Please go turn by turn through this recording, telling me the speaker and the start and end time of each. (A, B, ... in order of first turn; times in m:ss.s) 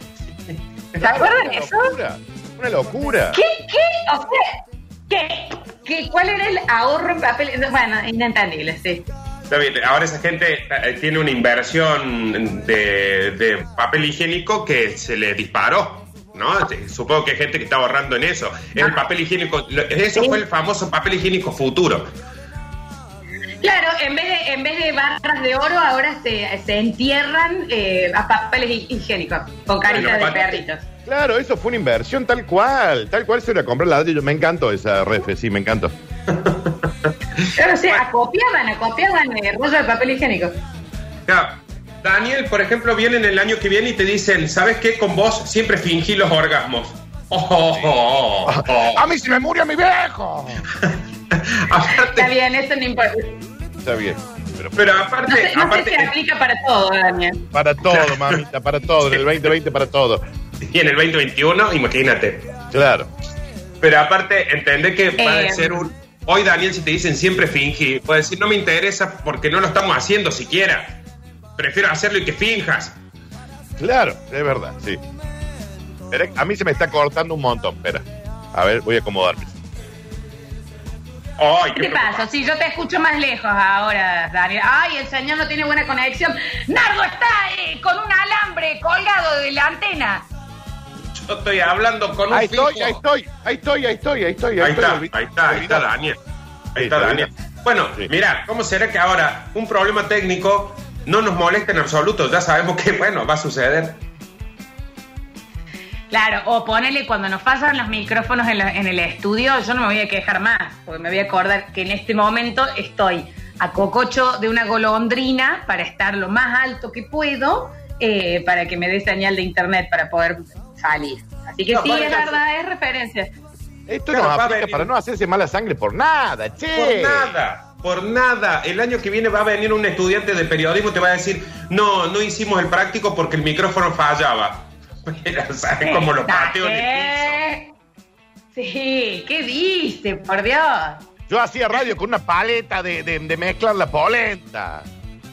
0:00.5-0:01.2 A
0:01.0-0:02.0 B
0:01.0-0:03.4 C
0:03.3-0:04.6 B
0:05.1-0:09.1 B
0:09.5-0:22.1 A
0:18.8-0:19.0 B
0:20.2-0:20.4 B
0:23.6-0:30.9 B
0:29.9-0:30.6 A
0:31.1-0:35.9 C
0:36.3-0:38.0 A
0:37.6-0:40.6 B
0:41.3-0:49.0 A
0:48.5-0:50.6 C
0:50.8-0:52.3 A
0:52.1-0:53.4 B
0:53.8-0:54.9 C
0:54.8-0:56.1 A
0:55.3-0:57.4 B
0:57.5-1:00.2 C
0:57.9-0:58.4 A
1:00.7-1:02.5 A
1:02.7-1:03.1 C
1:03.8-1:11.0 A
1:05.2-1:05.9 B
1:11.6-1:13.0 A
1:13.8-1:15.0 C
1:16.1-1:19.6 C
1:21.4-1:22.3 A
1:21.8-1:30.3 B
1:31.1-1:33.0 A
1:32.3-1:35.9 C
1:34.6-1:36.2 A
1:36.8-1:44.0 A
1:36.8-1:37.3 C
1:46.1-2:03.3 B
2:01.7-2:02.4 A
2:03.9-2:07.3 C
2:04.1-2:04.9 A
2:06.8-2:17.4 A
2:15.8-2:17.7 B
2:18.5-2:21.0 B
2:21.3-2:24.9 C